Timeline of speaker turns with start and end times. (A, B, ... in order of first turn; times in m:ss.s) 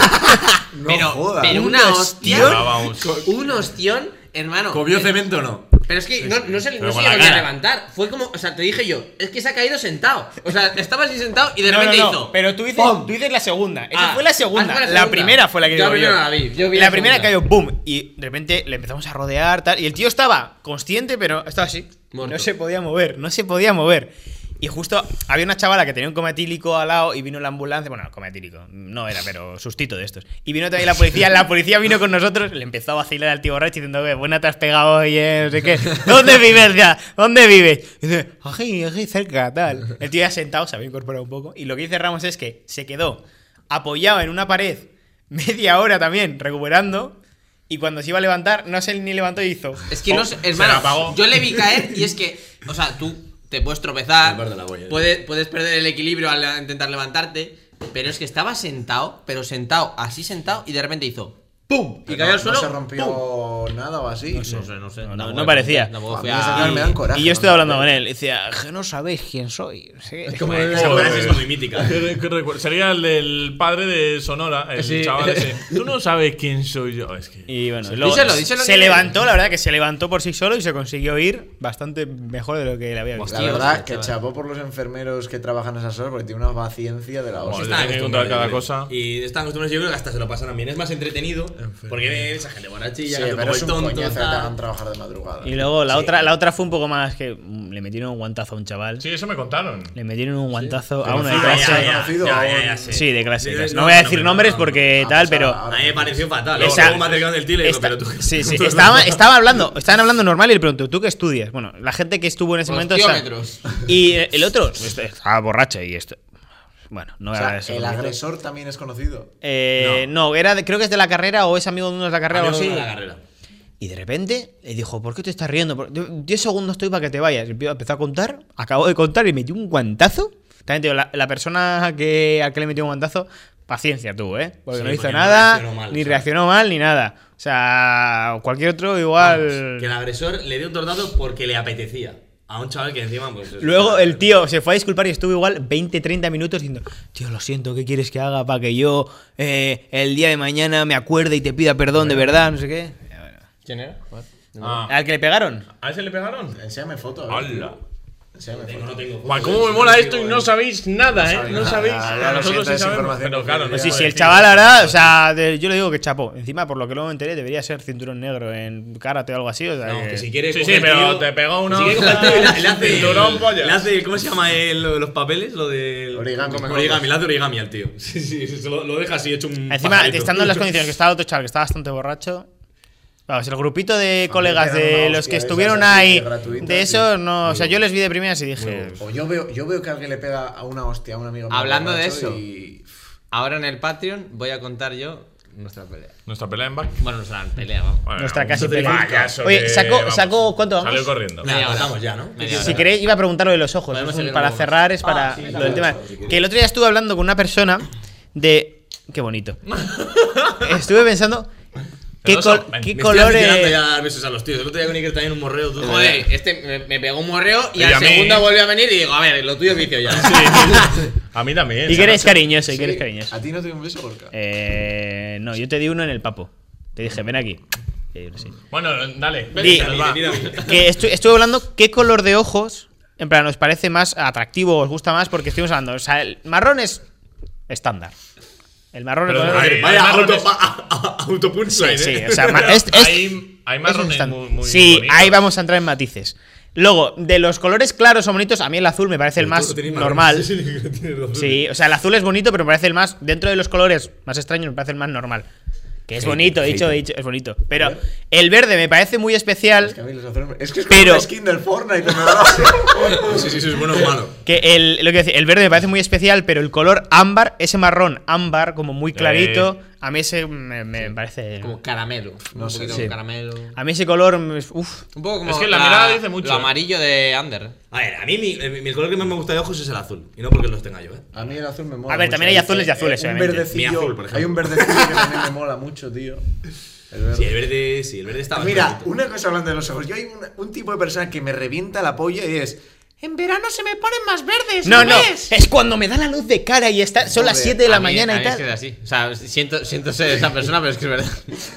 0:00.7-0:01.7 A
0:00.9-0:05.2 B
0:01.4-0:02.7 C
0:02.2-0:03.3 D
0:02.8-0:03.3 E
0:04.7-0:05.8 E
0:05.8-0:13.1 B
0:06.3-0:07.5 D
0:11.6-0:47.2 C
0:13.9-0:17.3 B
0:22.1-0:22.5 B
0:47.7-0:49.9 C
0:49.9-1:03.2 B
0:50.1-0:51.2 D
0:54.2-0:55.1 E
1:02.0-1:04.7 A
1:04.3-1:07.0 B
1:05.0-1:06.0 C
1:06.1-1:07.9 A
1:06.5-1:10.8 C
1:10.3-1:11.3 B
1:10.3-1:11.9 E
1:10.6-1:17.5 D
1:14.7-1:15.7 B
1:17.5-1:23.7 C
1:17.9-1:19.1 B
1:23.2-1:24.1 B
1:23.2-1:27.9 A
1:27.4-1:34.5 E
1:27.4-1:28.9 D
1:31.6-1:32.2 D
1:33.1-1:35.6 A
1:35.4-1:39.0 C
1:35.9-1:36.2 E
1:39.0-1:39.9 D
1:39.9-1:42.0 C
1:41.0-1:44.9 E
1:41.0-1:41.4 D
1:41.1-1:43.0 A
1:42.9-1:45.6 C
1:45.0-1:46.4 A
1:45.7-1:49.3 E
1:46.5-1:47.3 D
1:46.6-1:53.2 C
1:52.6-1:53.6 B
1:53.8-1:56.2 C
1:56.9-1:58.2 C
1:57.3-1:59.3 A
1:59.4-2:02.9 C
1:59.8-2:00.1 E
2:02.3-2:03.2 E
2:03.8-2:19.9 C
2:14.7-2:16.3 E
2:19.2-2:24.3 E
2:23.6-2:33.4 C
2:33.6-2:34.8 B
2:34.6-2:34.9 D
2:34.9-2:35.7 C
2:35.7-2:36.6 D
2:36.6-2:37.7 A
2:37.3-2:37.8 D
2:38.3-2:38.9 A
2:38.5-2:40.5 E
2:39.2-2:45.1 D
2:41.2-2:44.2 A
2:43.8-2:50.3 C
2:49.8-3:00.7 E
2:50.5-2:53.8 D
2:52.2-2:53.3 B
2:56.1-2:57.0 A
2:56.4-2:57.0 B
2:59.7-3:02.5 C
3:03.3-3:09.0 C
3:04.3-3:07.7 A
3:08.6-3:08.9 E
3:09.0-3:12.9 A
3:11.5-3:12.4 B
3:13.3-3:16.1 B
3:16.2-3:17.0 D
3:17.0-3:18.0 B
3:18.0-3:21.5 D
3:18.2-3:21.2 C
3:18.5-3:19.4 E
3:21.4-3:22.9 E
3:21.4-3:22.8 B
3:22.4-3:29.6 C
3:23.9-3:25.9 B
3:25.0-3:26.4 E
3:29.8-3:30.4 D
3:30.6-3:31.5 C
3:32.2-3:33.0 D
3:32.2-3:33.8 C
3:32.9-3:36.3 E
3:35.8-3:41.0 B
3:37.8-3:38.5 D
3:40.1-3:42.4 D
3:41.8-3:43.4 C
3:42.6-3:44.3 A
3:44.3-3:47.6 C
3:48.1-3:48.6 C
3:48.7-3:50.6 D
3:49.5-3:50.9 E
3:49.5-3:57.0 C
3:57.7-3:58.1 C
3:58.9-3:59.9 C
3:59.3-4:00.5 D
3:59.4-4:02.8 E
4:01.7-4:10.5 C
4:02.5-4:05.4 D
4:09.4-4:11.6 E
4:11.3-4:15.5 C
4:16.1-4:20.0 C
4:16.2-4:17.0 E
4:19.8-4:24.0 A
4:20.9-4:21.3 C
4:23.1-4:24.4 E
4:24.4-4:31.8 C
4:29.1-4:29.7 D
4:31.0-4:33.8 B
4:32.5-4:33.1 A
4:33.8-4:35.0 C
4:35.1-4:37.7 B
4:35.4-4:36.7 D
4:37.9-4:41.3 E
4:41.3-4:46.4 A
4:42.1-4:43.7 C
4:43.7-4:45.5 E
4:47.1-4:47.6 A
4:47.3-4:49.1 E
4:48.5-4:55.5 A
4:54.8-4:58.6 C
4:54.9-4:55.3 B
4:57.2-4:57.8 A
4:57.8-5:01.6 B